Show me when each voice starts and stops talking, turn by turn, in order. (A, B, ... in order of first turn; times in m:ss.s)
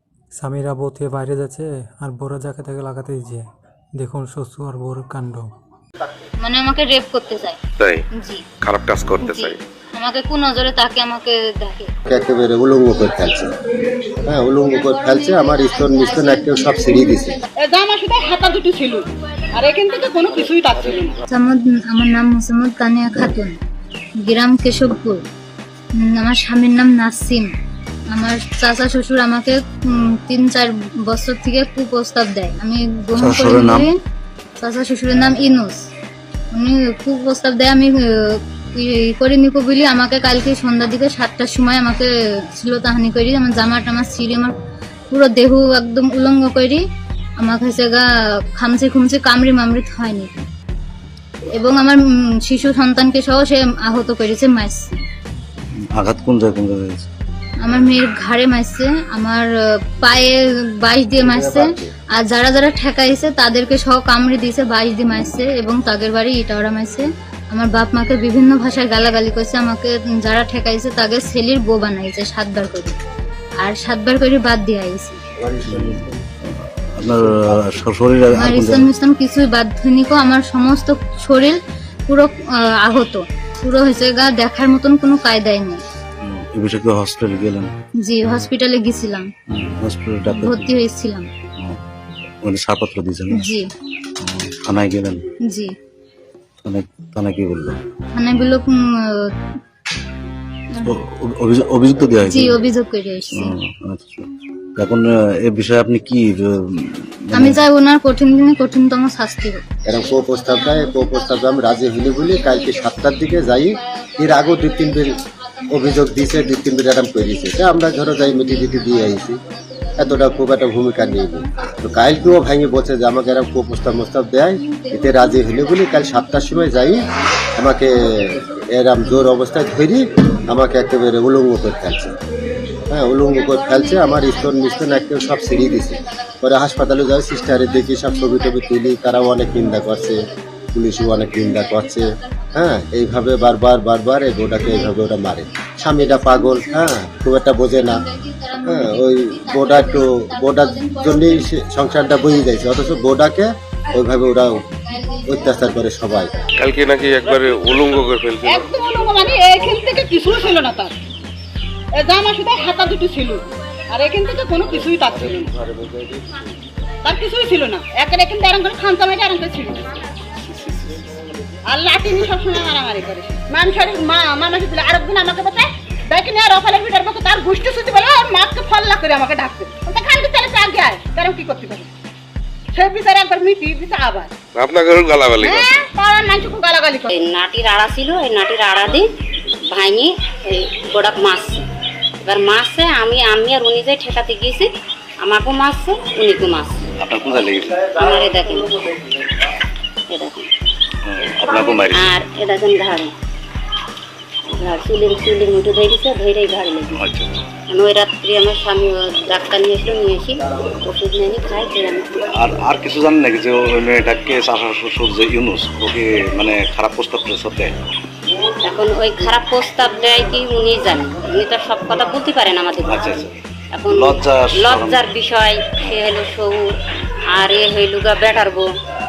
0:00.4-0:05.5 A
0:06.4-0:07.6 B
0:07.8-0:08.0 C
0:08.2-0:08.4 B
0:08.6-0:09.6 C
0:09.2-0:11.9 B
0:12.1-0:13.5 D
0:14.3-0:17.4 D
0:14.7-0:17.4 B
0:17.6-0:21.2 E
0:20.8-0:21.1 F
0:21.3-0:23.6 B
0:24.2-0:25.2 B
0:26.0-0:27.5 B
0:28.1-0:33.9 B
0:33.2-0:33.9 F
0:34.6-0:35.8 B
0:36.5-0:44.5 B
0:45.1-0:46.8 B
0:47.4-0:50.3 B
0:51.5-0:55.0 B
0:56.0-0:57.1 F
0:57.6-0:59.5 B
1:00.0-1:13.0 B
1:01.2-1:01.9 D
1:13.6-1:15.2 B
1:15.4-1:16.2 D
1:15.6-1:18.9 F
1:17.0-1:17.6 D
1:18.3-1:25.8 B
1:26.2-1:27.7 F
1:28.0-1:29.3 B
1:29.5-1:30.8 F
1:30.3-1:31.3 B
1:32.4-1:33.5 F
1:33.3-1:33.7 B
1:34.2-1:35.2 F
1:35.5-1:35.7 B
1:36.6-1:37.8 F
1:38.2-1:39.3 B
1:40.9-1:42.6 F
1:42.3-1:43.5 B
1:43.3-1:47.6 F
1:47.3-2:02.3 B
1:49.9-1:55.2 D
1:55.7-1:59.4 D
2:00.0-2:07.0 D
2:04.7-2:07.0 B
2:07.6-2:12.2 D
2:12.9-2:28.0 D
2:13.2-2:22.8 B
2:24.5-2:33.0 B
2:28.7-2:34.6 D
2:34.8-2:36.2 B
2:35.3-2:36.3 D
2:36.6-2:38.6 C
2:37.1-2:41.0 E
2:41.9-2:45.5 E
2:45.4-2:46.4 D
2:47.0-2:50.0 E
2:51.6-3:01.9 E
3:02.7-3:04.3 E
3:04.6-3:05.7 C
3:05.4-3:07.1 E
3:07.1-3:09.1 G
3:09.7-3:11.7 G
3:12.3-3:14.7 G
3:15.2-3:16.8 G
3:17.0-3:17.8 F
3:17.8-3:19.0 G
3:20.1-3:20.5 G
3:21.0-3:22.2 F
3:21.6-3:23.1 G
3:24.6-3:27.0 G
3:26.9-3:27.5 F
3:27.7-3:32.2 G
3:32.3-3:37.8 F
3:38.6-3:43.2 G
3:42.8-3:45.1 F
3:43.7-3:46.7 G
3:47.3-3:48.6 G